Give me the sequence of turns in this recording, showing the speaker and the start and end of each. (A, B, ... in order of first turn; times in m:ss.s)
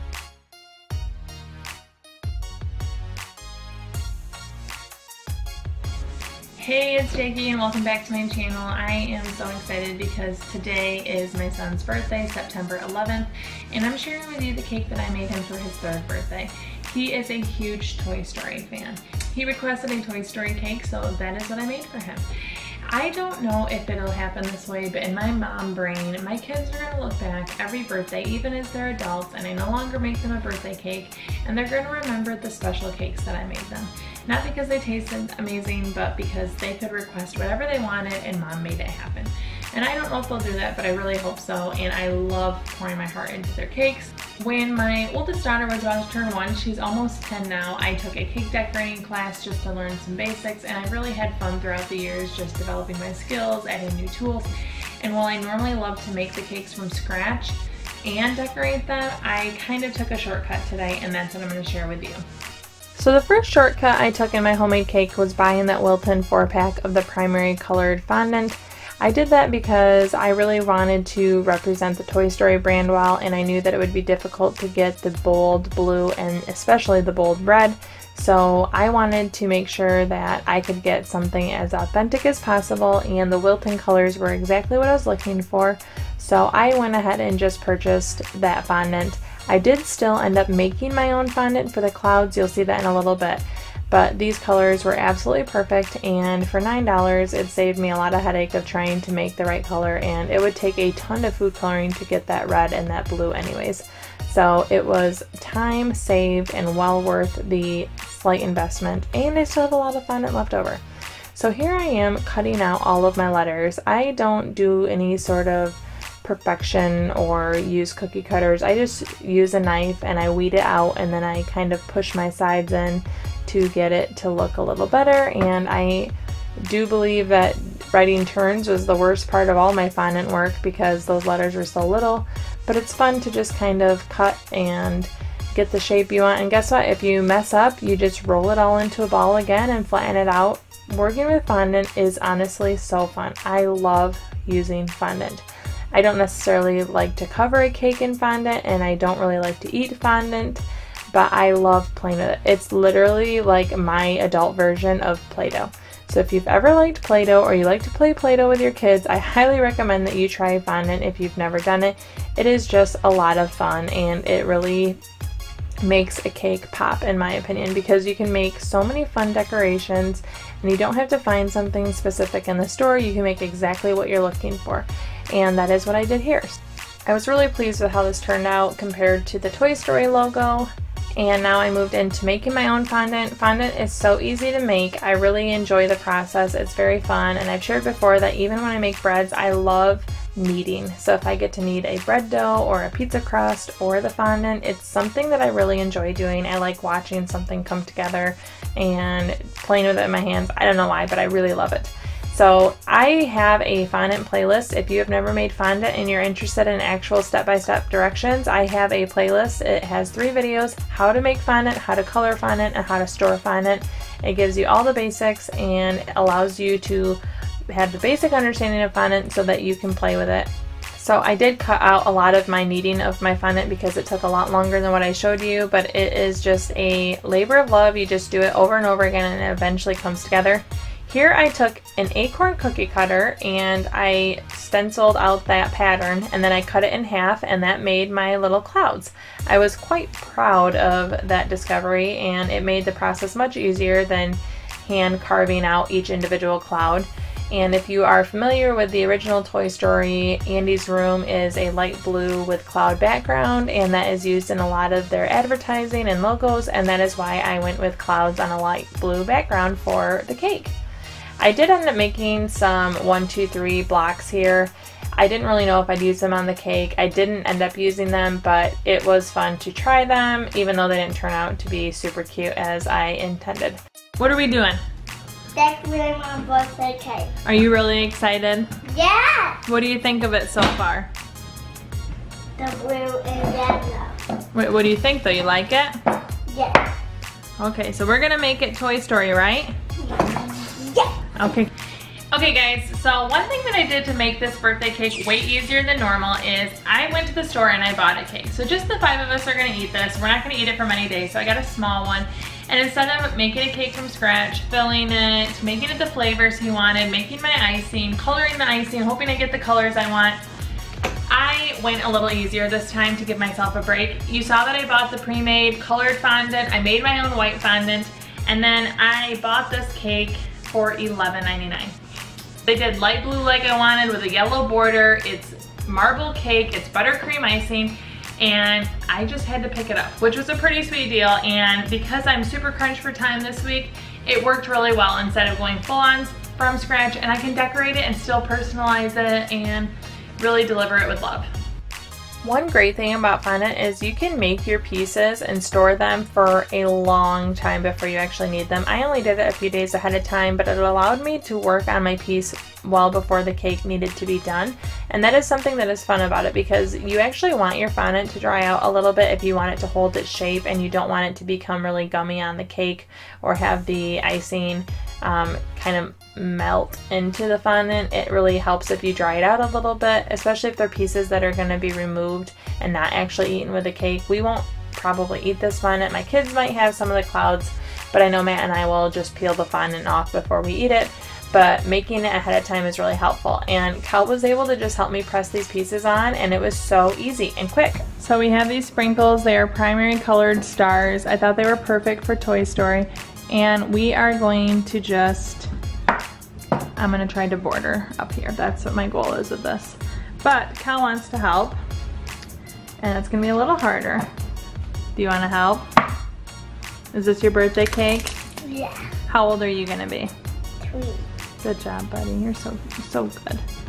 0:06.6-0:22.3 A
0:22.9-1:02.2 A
1:03.0-1:50.8 A
1:51.3-2:45.0 A
2:45.8-3:37.2 A
3:37.7-4:20.8 A
4:21.4-4:34.8 A
4:35.5-4:37.3 B
4:37.4-4:38.7 A
4:38.8-4:39.6 B
4:39.6-4:41.1 A
4:42.6-4:44.2 B
4:44.5-4:45.9 A
4:46.5-4:46.9 B
4:47.6-4:49.7 A
4:50.0-4:51.2 B
4:51.4-4:51.7 A
4:52.3-5:10.4 A
5:11.3-5:22.0 A
5:22.6-5:41.5 A
5:42.4-6:35.7 A
6:37.0-6:41.8 A
6:43.0-6:44.2 A
6:45.2-6:45.8 A
6:47.1-6:48.3 A
6:48.6-6:49.1 B
6:49.2-6:50.3 A
6:50.8-6:51.2 B
6:51.6-6:53.6 A